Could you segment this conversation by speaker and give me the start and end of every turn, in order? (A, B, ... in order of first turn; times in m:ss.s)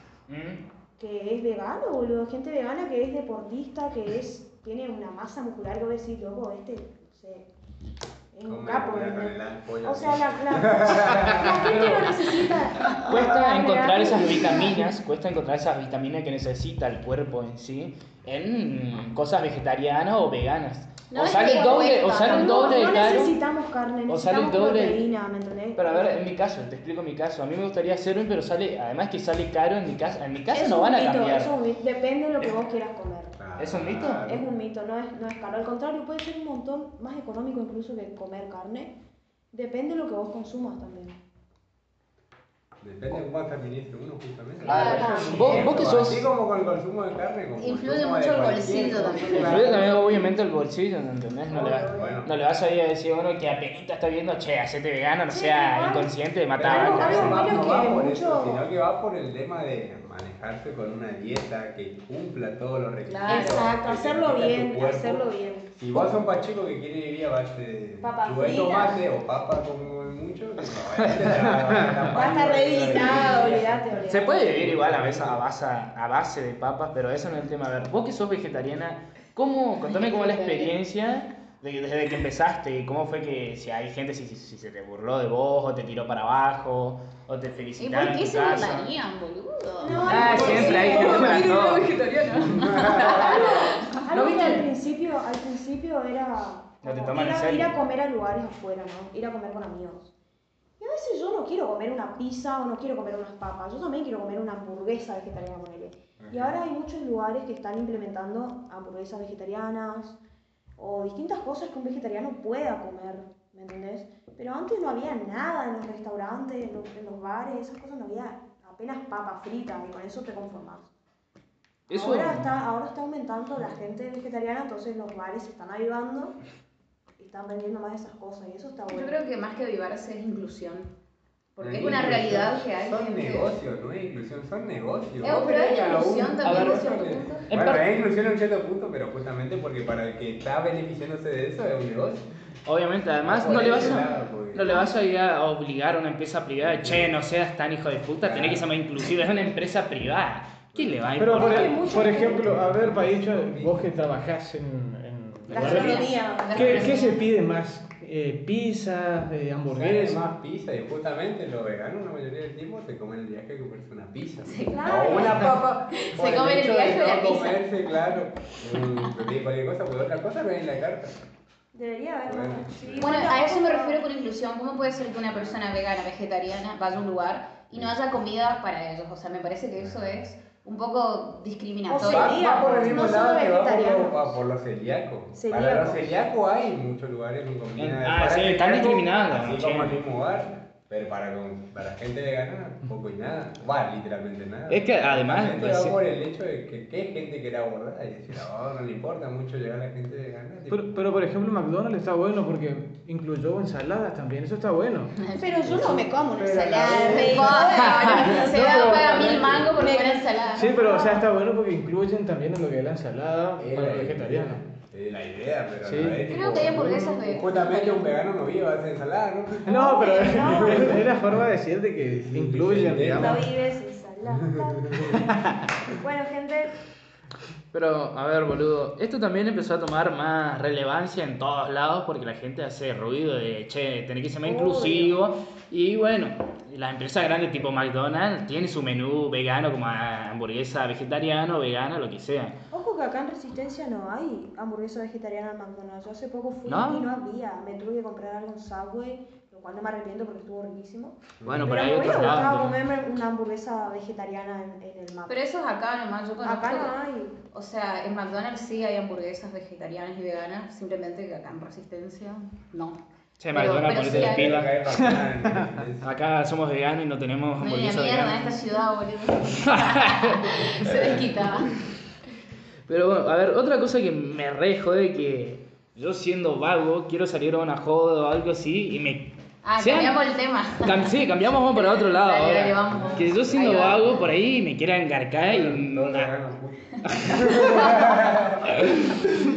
0:00.3-0:00.6 A
0:01.0-0:07.5 B
0:08.3-0:14.9 B
0:08.5-0:12.1 C
0:11.4-0:12.2 A
0:13.0-0:23.4 A
0:21.1-0:23.3 D
0:22.2-0:26.2 B
0:24.1-0:25.0 A
0:25.8-0:31.5 A
0:30.5-0:33.4 B
0:33.4-0:34.5 C
0:33.6-0:34.3 A
0:34.2-0:38.9 B
0:39.5-0:41.2 B
0:42.8-0:49.9 C
0:44.6-0:45.9 D
0:44.7-0:45.9 B
0:44.7-0:46.3 A
0:47.6-0:49.6 D
0:49.4-0:57.7 A
0:51.5-0:52.2 B
0:51.8-0:52.3 C
0:55.3-0:56.1 B
0:56.6-1:15.4 C
0:56.6-0:58.7 B
1:03.1-1:03.7 D
1:03.3-1:05.7 B
1:08.0-1:09.0 B
1:10.9-1:11.3 A
1:11.3-1:12.2 E
1:12.1-1:14.5 B
1:14.1-1:28.9 A
1:19.8-1:20.8 D
1:27.8-1:34.0 D
1:29.8-1:31.5 B
1:30.1-1:31.9 A
1:32.5-1:33.1 C
1:32.8-1:34.7 A
1:32.9-1:40.1 B
1:36.8-1:37.8 A
1:40.8-1:50.2 B
1:46.2-1:46.6 C
1:50.8-2:00.9 B
2:01.9-2:02.5 A
2:01.9-2:06.4 B
2:07.2-2:09.2 B
2:08.9-2:10.9 D
2:11.6-2:13.6 D
2:11.6-2:22.2 C
2:15.2-2:17.5 D
2:16.4-2:16.9 A
2:17.5-2:17.9 A
2:22.7-2:31.9 A
2:23.2-2:24.8 C
2:26.6-2:27.1 C
2:28.2-2:28.6 C
2:30.7-2:31.2 C
2:31.2-2:40.2 E
2:31.3-2:32.6 B
2:32.1-2:33.8 C
2:35.5-2:37.3 D
2:35.5-2:37.0 B
2:39.7-2:51.2 C
2:44.4-2:47.7 D
2:44.7-2:45.6 B
2:51.7-2:54.0 B
2:52.3-2:53.4 C
2:53.0-3:02.4 D
2:55.3-2:55.6 C
2:59.8-3:00.2 C
3:01.9-3:04.4 B
3:02.0-3:21.0 C
3:05.3-3:06.2 B
3:07.8-3:10.0 A
3:14.7-3:16.0 A
3:20.7-3:25.2 E
3:25.2-3:26.1 D
3:25.4-3:31.3 B
3:26.4-3:27.4 C
3:26.6-3:27.2 E
3:26.8-3:30.7 D
3:27.6-3:28.2 A
3:28.4-3:29.7 E
3:30.5-3:34.6 E
3:33.6-3:41.4 C
3:35.8-3:36.2 E
3:36.3-3:38.1 D
3:39.7-3:43.5 E
3:39.7-3:41.0 B
3:42.1-3:43.5 C
3:43.1-3:46.7 B
3:44.3-3:45.2 C
3:47.7-4:02.6 A
3:54.4-3:55.2 B
4:02.7-4:15.4 B
4:06.7-4:07.0 A
4:11.4-4:11.7 C
4:11.4-4:12.8 A
4:15.3-4:17.0 D
4:16.4-4:17.4 B
4:17.5-4:23.0 D
4:23.4-4:24.8 A
4:23.5-4:24.6 D
4:24.0-4:26.1 C
4:24.9-4:25.7 E
4:26.0-4:28.6 A
4:27.6-4:31.8 D
4:29.6-4:31.2 A
4:30.8-4:31.2 C
4:32.9-4:40.2 A
4:39.6-4:41.1 D
4:40.8-4:46.3 A
4:41.7-4:44.2 D
4:42.9-4:43.5 C
4:45.4-4:48.9 C
4:47.0-4:48.1 A
4:47.7-4:48.1 D
4:48.6-4:49.3 A